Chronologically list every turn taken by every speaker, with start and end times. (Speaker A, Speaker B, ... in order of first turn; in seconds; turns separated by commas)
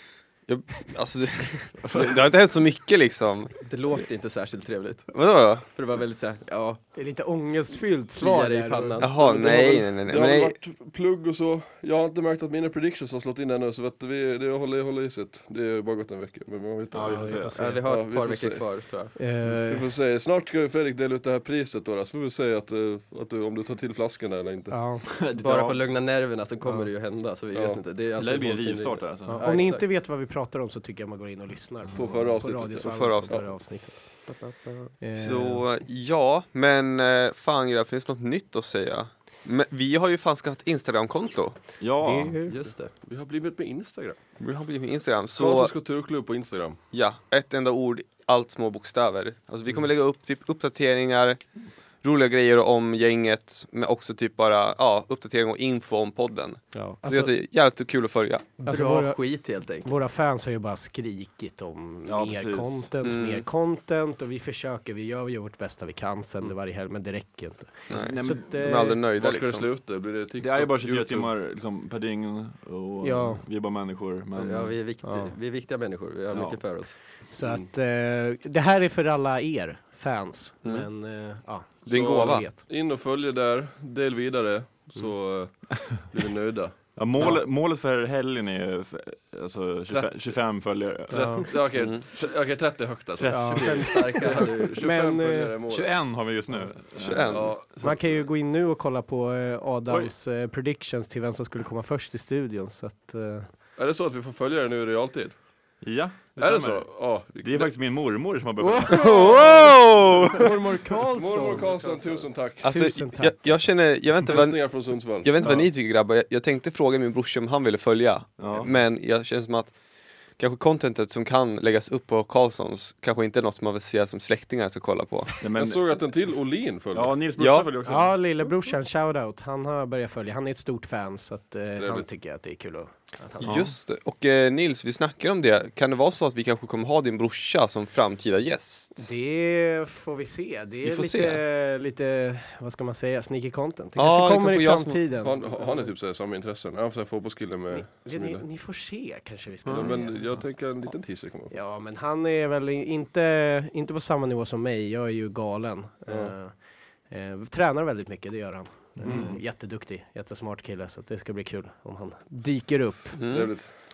Speaker A: 0.5-3.6, Speaker B: 3.6-6.8, Speaker A: 5.1-5.7, Speaker C: 7.0-9.0, Speaker B: 8.2-9.2, Speaker A: 9.0-10.6, Speaker D: 9.1-18.6, Speaker E: 16.9-17.8, Speaker C: 17.0-17.8, Speaker B: 17.6-19.1, Speaker C: 19.2-19.9, Speaker D: 19.4-24.8, Speaker C: 24.7-25.1, Speaker E: 25.1-25.8, Speaker B: 25.4-29.9, Speaker D: 27.5-27.8, Speaker E: 28.2-29.6, Speaker C: 29.3-34.2, Speaker D: 31.9-33.6, Speaker A: 32.8-33.4, Speaker B: 34.3-34.9, Speaker C: 35.0-35.6, Speaker A: 35.1-41.6, Speaker E: 41.8-42.4, Speaker C: 42.0-42.6, Speaker B: 42.5-42.9, Speaker D: 42.9-44.2, Speaker A: 44.4-45.7, Speaker D: 45.4-46.8, Speaker A: 46.9-51.4, Speaker A: 52.0-58.5, Speaker C: 56.7-57.3, Speaker B: 58.6-59.9, Speaker C: 58.6-59.2, Speaker C: 59.8-69.0, Speaker E: 62.1-62.9, Speaker A: 63.0-63.5, Speaker A: 67.9-69.7, Speaker E: 67.9-68.5, Speaker D: 69.1-71.3, Speaker E: 70.4-74.8, Speaker C: 73.0-73.4, Speaker B: 74.4-77.0, Speaker C: 75.0-75.3, Speaker E: 76.3-76.6, Speaker C: 77.3-82.6, Speaker A: 80.6-80.9, Speaker A: 81.9-82.6, Speaker D: 81.9-87.4, Speaker E: 87.0-91.5, Speaker D: 89.9-96.0, Speaker C: 91.1-91.5, Speaker A: 91.8-92.0, Speaker E: 93.2-94.5, Speaker C: 93.3-94.1, Speaker B: 93.7-94.8, Speaker C: 94.8-95.5, Speaker E: 95.7-98.2, Speaker A: 97.0-97.5, Speaker D: 97.0-98.1, Speaker C: 97.8-103.5, Speaker E: 99.9-100.1, Speaker D: 103.8-105.4, Speaker E: 105.8-109.0, Speaker D: 106.4-107.7, Speaker C: 108.6-111.7, Speaker A: 108.9-110.5, Speaker D: 111.1-112.7, Speaker B: 111.5-112.3, Speaker A: 112.6-119.8, Speaker C: 112.6-113.7, Speaker D: 114.2-115.4, Speaker E: 115.4-115.7, Speaker E: 118.4-118.7, Speaker A: 120.4-125.4, Speaker E: 125.4-125.8, Speaker D: 125.5-127.2, Speaker E: 126.9-128.2, Speaker A: 127.4-127.7, Speaker C: 127.9-133.7, Speaker D: 131.8-132.1, Speaker A: 133.4-139.1, Speaker C: 139.0-145.9, Speaker A: 140.8-141.4, Speaker A: 144.0-145.1, Speaker D: 145.2-148.5, Speaker C: 147.7-150.7, Speaker D: 149.7-151.5, Speaker C: 151.5-156.6, Speaker D: 156.1-156.3, Speaker C: 157.1-163.2, Speaker E: 159.0-159.3, Speaker D: 159.1-159.3, Speaker A: 163.2-163.5, Speaker D: 163.2-163.7